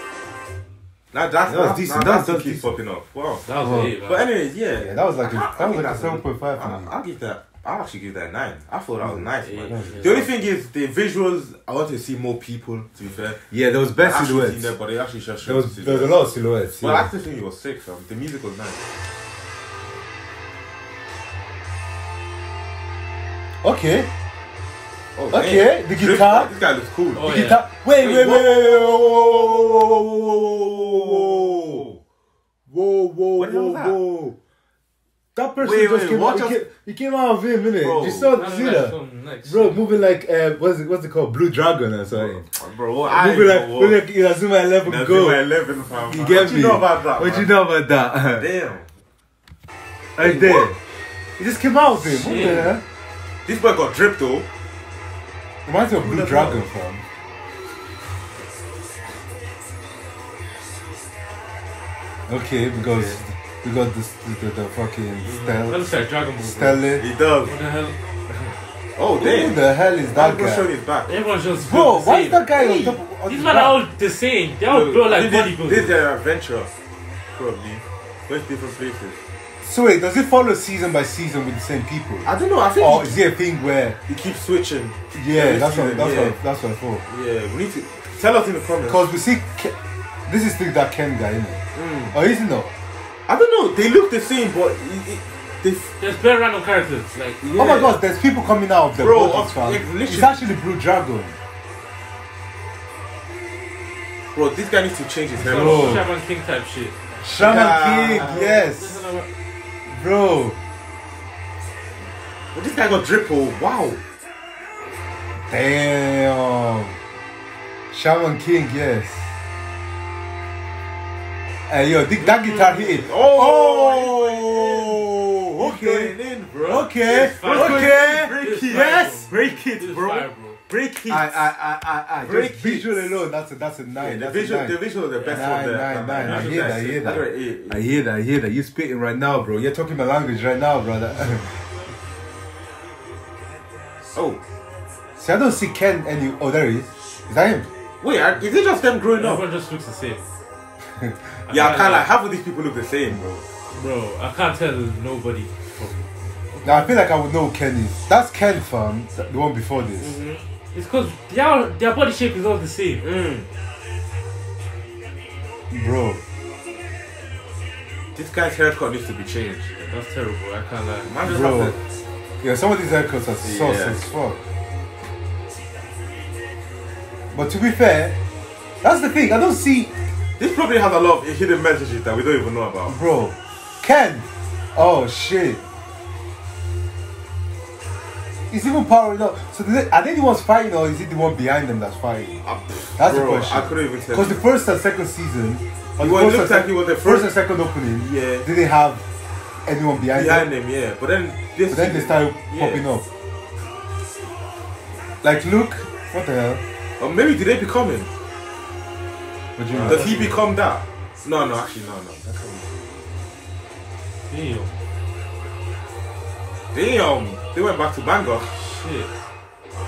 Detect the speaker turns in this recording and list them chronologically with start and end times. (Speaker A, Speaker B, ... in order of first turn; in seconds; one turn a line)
Speaker A: 1.1-3.5
Speaker B: 1.5-2.7
Speaker C: 3.5-4.3
Speaker B: 3.6-4.0
Speaker A: 4.0-13.4
Speaker B: 4.8-6.9
Speaker C: 9.4-10.3
Speaker B: 9.7-10.3
Speaker B: 13.5-14.7
Speaker A: 14.0-16.2
Speaker B: 15.4-17.1
Speaker A: 16.8-18.8
Speaker B: 23.6-24.1
Speaker A: 25.2-27.3
Speaker B: 25.3-26.5
Speaker C: 27.2-27.6
Speaker B: 27.2-31.8
Speaker A: 28.0-32.0
Speaker B: 32.7-34.4
Speaker A: 33.4-34.0
Speaker B: 35.4-42.5
Speaker A: 35.6-36.6
Speaker A: 37.8-38.4
Speaker C: 38.3-39.7
Speaker A: 42.1-44.0
Speaker B: 43.0-45.4
Speaker A: 44.9-47.5
Speaker B: 46.1-48.5
Speaker A: 48.4-48.9
Speaker B: 50.2-50.8
Speaker A: 50.2-50.6
Speaker B: 51.4-52.8
Speaker C: 52.2-52.7
Speaker A: 53.5-54.5
Speaker B: 55.7-57.0
Speaker A: 56.0-56.6
Speaker B: 62.3-67.0
Speaker C: 65.3-66.8
Speaker A: 67.0-67.5
Speaker C: 67.5-68.6
Speaker A: 69.0-69.6
Speaker B: 69.2-70.7
Speaker A: 70.1-71.1
Speaker C: 71.1-72.5
Speaker B: 71.6-73.8
Speaker A: 72.5-73.0
Speaker C: 73.2-76.0
Speaker A: 74.7-76.7
Speaker A: 77.3-79.2
Speaker B: 79.6-82.3
Speaker A: 82.2-83.2
Speaker B: 82.8-84.0
Speaker A: 84.1-86.4
Speaker B: 85.1-87.0
Speaker A: 87.1-89.1
Speaker B: 88.9-89.8
Speaker B: 90.3-91.6
Speaker A: 91.8-92.1
Speaker B: 92.1-92.7
Speaker A: 93.3-95.9
Speaker C: 96.0-97.4
Speaker A: 97.4-98.0
Speaker B: 97.5-101.4
Speaker A: 99.0-100.4
Speaker A: 104.3-106.0
Speaker C: 105.4-107.0
Speaker B: 105.5-106.0
Speaker B: 107.2-109.0
Speaker A: 107.2-108.4
Speaker C: 108.0-109.3
Speaker B: 109.9-110.6
Speaker A: 112.5-114.0
Speaker B: 115.5-117.0
Speaker B: 117.9-119.3
Speaker B: 121.7-129.3
Speaker A: 122.0-131.3
Speaker C: 126.8-130.6
Speaker B: 131.1-141.5
Speaker A: 132.2-132.9
Speaker A: 134.0-137.8
Speaker C: 136.2-137.2
Speaker A: 144.1-144.4
Speaker B: 145.2-147.7
Speaker A: 148.0-149.4
Speaker C: 149.2-150.2
Speaker B: 150.9-151.4
Speaker C: 151.5-152.1
Speaker A: 151.5-153.2
Speaker B: 153.1-153.4
Speaker C: 153.7-156.9
Speaker B: 156.6-160.2
Speaker A: 160.0-160.4
Speaker C: 160.7-163.1
Speaker A: 163.0-163.5
Speaker B: 165.7-166.2
Speaker A: 168.2-169.9
Speaker C: 169.9-171.6
Speaker A: 171.1-171.8
Speaker B: 171.2-171.8
Speaker B: 172.4-174.4
Speaker A: 173.4-174.0
Speaker B: 177.3-178.2
Speaker B: 178.8-179.9
Speaker A: 180.4-183.0
Speaker B: 182.9-185.6
Speaker B: 188.5-192.4
Speaker A: 192.4-194.4
Speaker B: 193.0-199.0
Speaker A: 196.0-197.3
Speaker A: 198.0-198.5
Speaker B: 199.7-200.5
Speaker A: 200.1-202.8
Speaker B: 201.7-203.1
Speaker B: 205.2-206.6
Speaker A: 207.0-208.1
Speaker B: 209.6-210.2
Speaker A: 209.7-212.6
Speaker C: 209.9-210.3
Speaker C: 214.3-214.8
Speaker A: 216.7-218.5
Speaker C: 218.5-219.1